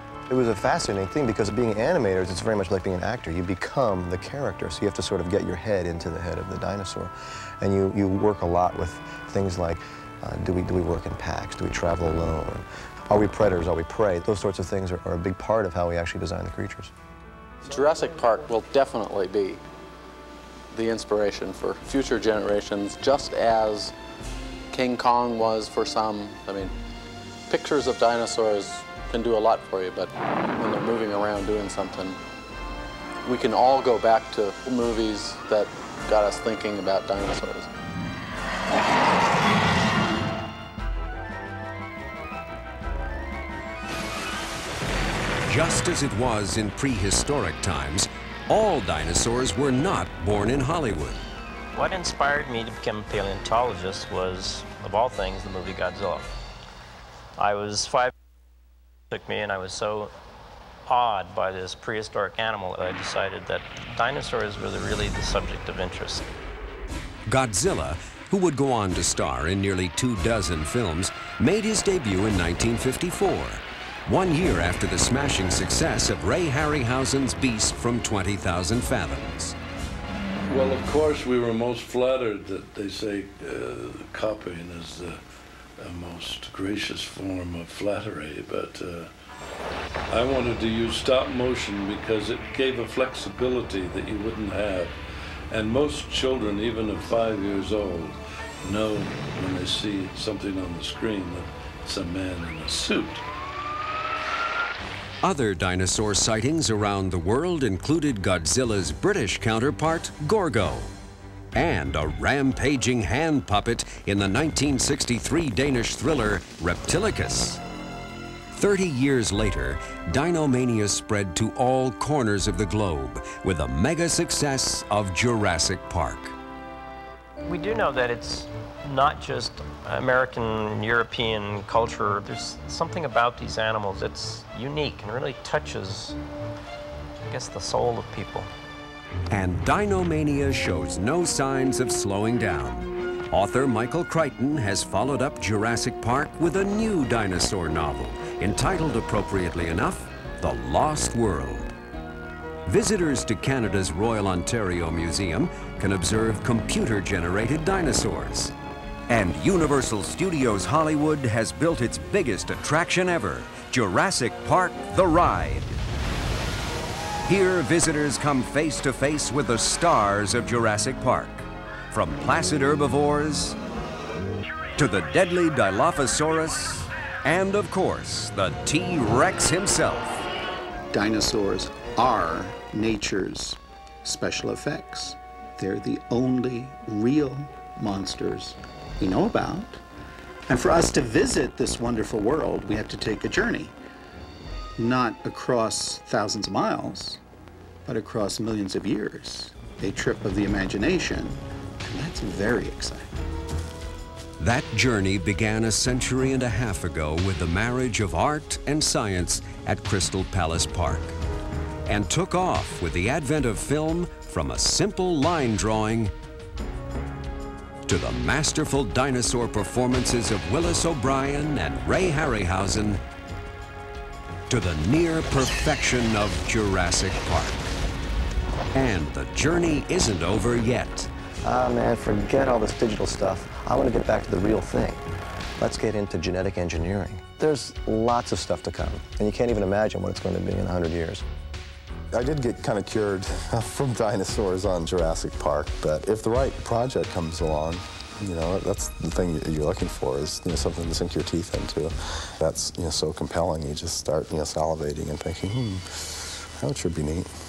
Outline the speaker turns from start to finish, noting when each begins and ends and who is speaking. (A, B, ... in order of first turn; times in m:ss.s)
0:00.3-0:16.9 A
0:17.6-0:19.6 B
0:20.7-0:23.9 B
0:24.7-0:26.7 B
0:27.5-0:32.2 B
0:33.2-0:37.7 B
0:45.5-0:51.2 C
0:51.7-0:56.3 D
0:57.4-0:58.1 D
0:59.1-1:00.1 D
1:00.9-1:06.3 D
1:07.3-1:19.6 C
1:20.4-1:25.2 E
1:25.8-1:29.1 E
1:30.1-1:35.0 E
1:35.5-1:43.2 E
1:45.2-1:50.9 C
1:51.5-1:57.6 C
1:58.5-2:06.4 C
2:07.4-2:16.2 D
2:17.3-2:18.5 D
2:19.3-2:31.7 C
2:32.6-2:38.5 C
2:39.1-2:45.7 C
2:47.3-2:53.6 C
2:54.8-3:00.2 C
3:00.9-3:09.8 F
3:10.5-3:13.7 F
3:14.8-3:17.2 F
3:17.8-3:23.1 F
3:24.4-3:31.2 C
3:31.9-3:36.1 C
3:37.8-3:43.0 C
3:44.5-3:47.6 C
3:48.7-3:51.1 C
3:51.4-3:55.0 A
3:55.6-4:01.2 A
4:02.1-4:17.3 G